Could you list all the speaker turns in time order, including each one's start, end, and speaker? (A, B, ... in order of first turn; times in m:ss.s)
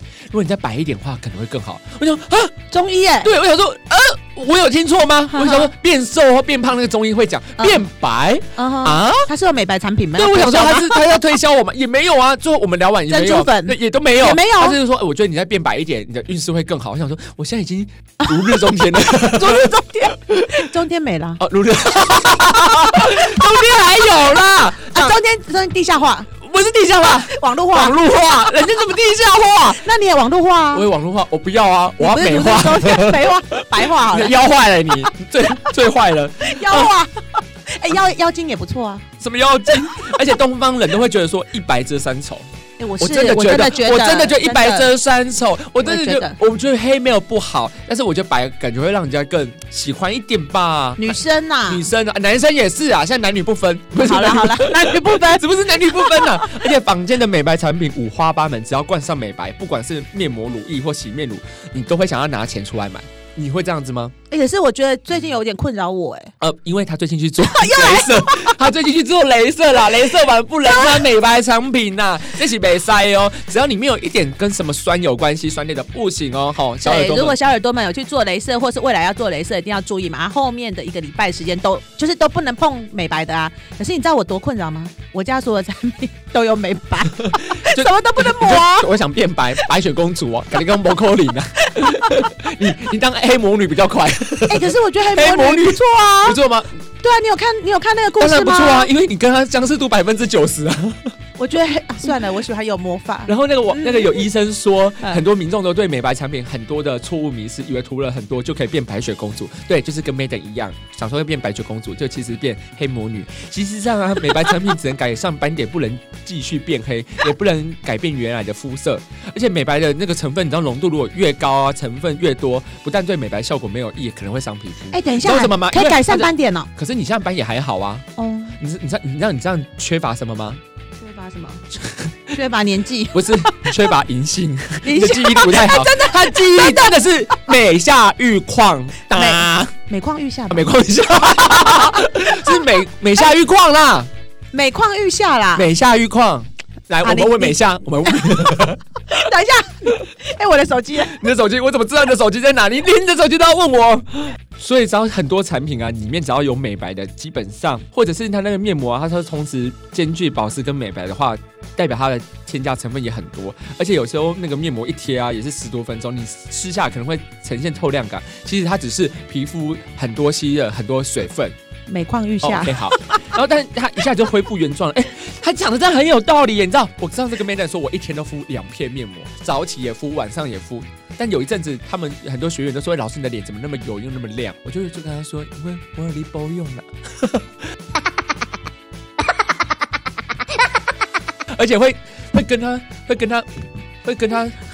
0:00.3-0:02.6 A
0:02.7-0:03.3 B
0:03.2-0:09.3 A
0:05.3-0:05.7 B
0:07.6-0:07.8 B
0:08.6-0:11.1 B
0:10.2-0:20.7 A
0:13.1-0:14.8 B
0:18.2-0:21.4 B
0:21.4-0:25.2 A
0:22.3-0:24.2 B
0:24.8-0:26.3 B
0:26.4-0:29.8 A
0:27.2-0:28.0 B
0:29.8-0:30.9 B
0:30.7-0:37.0 A
0:32.0-0:34.4 B
0:36.4-0:39.0 B
0:39.2-0:42.5 A
0:39.7-0:40.1 B
0:42.8-0:44.9 B
0:43.0-1:04.1 A
0:45.8-0:46.4 B
0:51.0-0:51.9 B
0:54.0-0:56.6 B
1:04.3-1:06.3 B
1:06.4-1:17.4 A
1:07.4-1:08.6 B
1:10.7-1:11.0 B
1:16.8-1:28.9 B
1:27.2-1:36.7 A
1:31.6-1:32.2 B
1:34.5-1:36.4 B
1:37.0-1:38.9 B
1:38.2-1:41.1 A
1:41.4-1:44.2 B
1:43.3-2:08.1 A
2:04.9-2:06.7 B
2:08.2-2:08.6 B
2:08.6-2:10.6 A
2:11.0-2:11.6 B
2:11.8-2:12.1 A
2:12.3-2:13.8 B
2:13.1-2:19.7 A
2:14.8-2:17.1 B
2:19.1-2:20.7 B
2:20.5-2:24.1 A
2:24.5-2:25.7 B
2:25.6-2:28.8 A
2:27.0-2:28.3 B
2:29.1-2:31.2 B
2:31.0-2:51.6 A
2:51.9-2:53.3 B
2:52.4-3:07.5 A
3:11.5-3:13.5 A
3:14.0-3:14.6 A